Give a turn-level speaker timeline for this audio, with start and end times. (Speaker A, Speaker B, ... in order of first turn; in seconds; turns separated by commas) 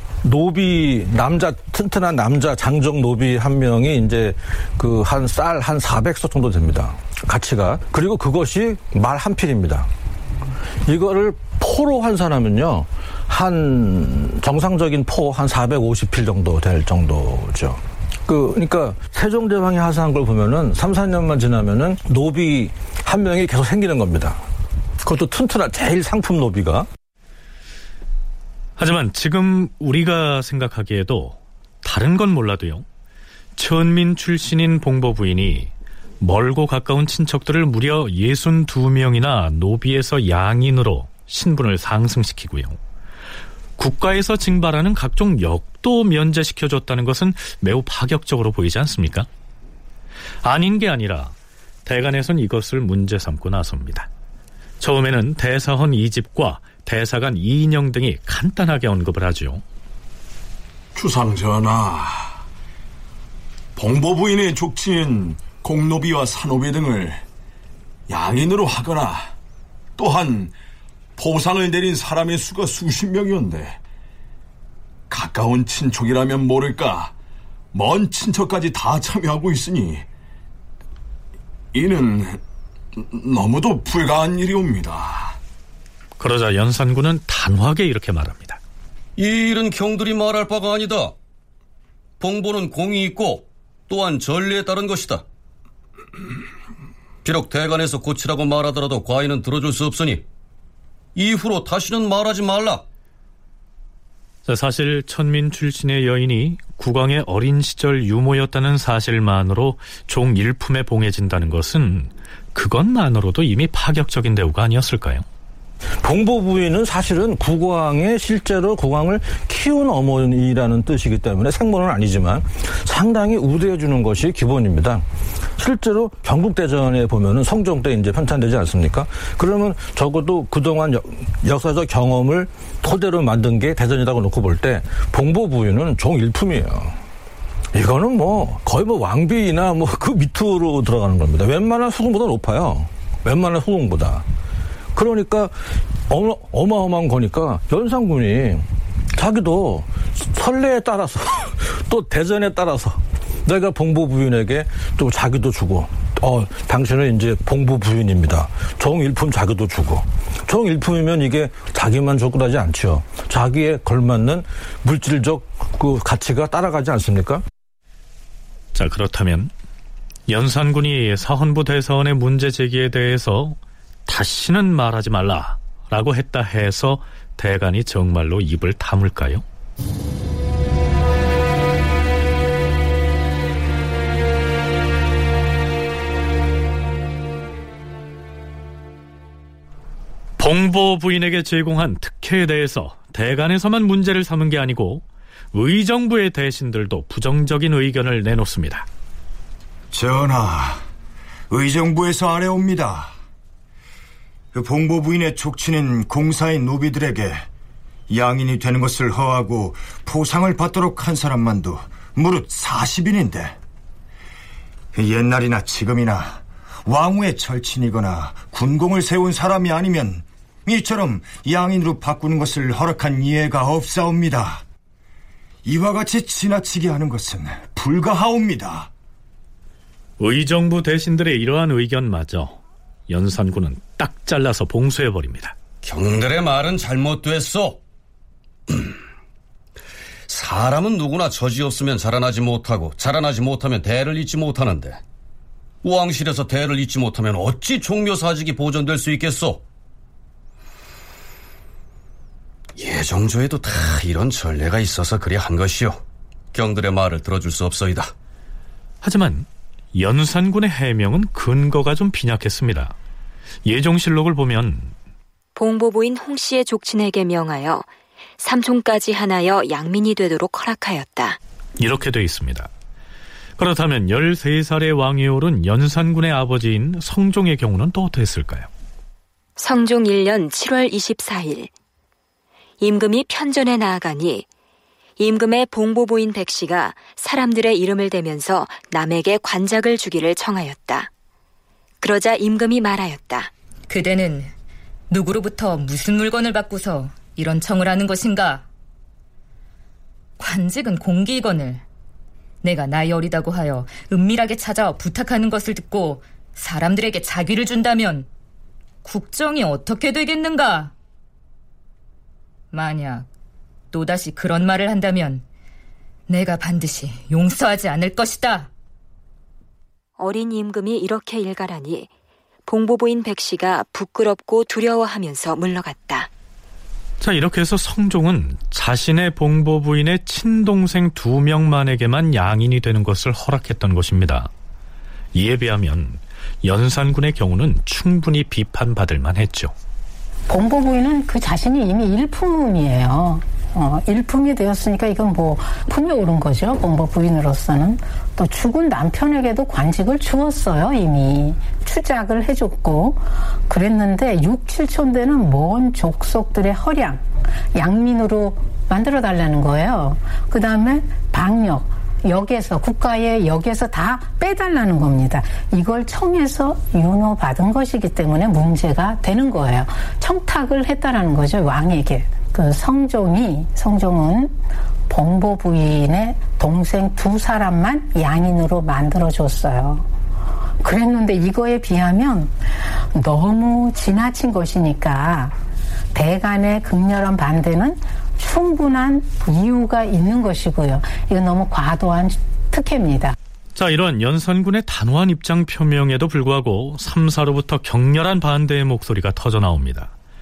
Speaker A: 0.2-9.9, Speaker A: 10.9-24.4, Speaker A: 25.0-26.9, Speaker B: 28.8-32.8, Speaker B: 33.6-42.8, Speaker B: 43.8-49.3, Speaker B: 50.4-51.3, Speaker B: 51.9-54.1, Speaker B: 54.8-59.6, Speaker C: 61.0-62.4, Speaker C: 63.8-67.2, Speaker C: 68.1-69.3, Speaker C: 70.0-70.5, Speaker C: 71.2-73.8, Speaker C: 75.1-77.1, Speaker C: 77.7-80.0, Speaker C: 81.7-82.4, Speaker C: 83.0-85.4, Speaker B: 86.2-88.6, Speaker D: 89.2-91.1, Speaker D: 92.2-95.2, Speaker D: 97.2-100.2, Speaker D: 101.2-102.8, Speaker B: 104.5-115.2, Speaker A: 116.0-125.0, Speaker A: 125.5-137.0, Speaker A: 137.7-144.2, Speaker A: 144.9-167.4, Speaker B: 168.7-169.5, Speaker B: 170.3-179.4, Speaker B: 190.4-198.9, Speaker E: 199.9-200.8, Speaker E: 201.5-203.1, Speaker E: 204.5-207.4, Speaker E: 208.1-213.6, Speaker E: 214.9-224.6, Speaker E: 225.6-228.9, Speaker B: 230.2-235.5, Speaker D: 235.8-237.8, Speaker D: 240.3-245.0, Speaker D: 245.8-249.6, Speaker D: 252.8-256.0, Speaker D: 256.5-258.1, Speaker B: 259.0-262.9, Speaker B: 263.6-264.9, Speaker F: 265.6-267.9, Speaker F: 268.4-271.4, Speaker B: 271.8-272.7, Speaker B: 273.6-278.7, Speaker F: 279.6-281.7, Speaker F: 282.8-284.4, Speaker F: 285.2-291.1, Speaker F: 292.0-293.5, Speaker G: 293.9-294.5, Speaker G: 295.1-298.6, Speaker G: 300.4-301.8, Speaker G: 302.6-308.3, Speaker G: 309.0-310.9, Speaker G: 312.7-313.3, Speaker G: 313.9-315.4, Speaker G: 316.3-318.7, Speaker F: 320.2-322.1, Speaker F: 322.7-326.3, Speaker B: 327.2-334.5, Speaker B: 335.3-339.7, Speaker H: 340.5-357.2, Speaker H: 357.7-374.5, Speaker H: 375.1-380.1, Speaker H: 380.8-382.5, Speaker H: 383.1-385.6, Speaker H: 386.1-393.4, Speaker B: 393.7-400.1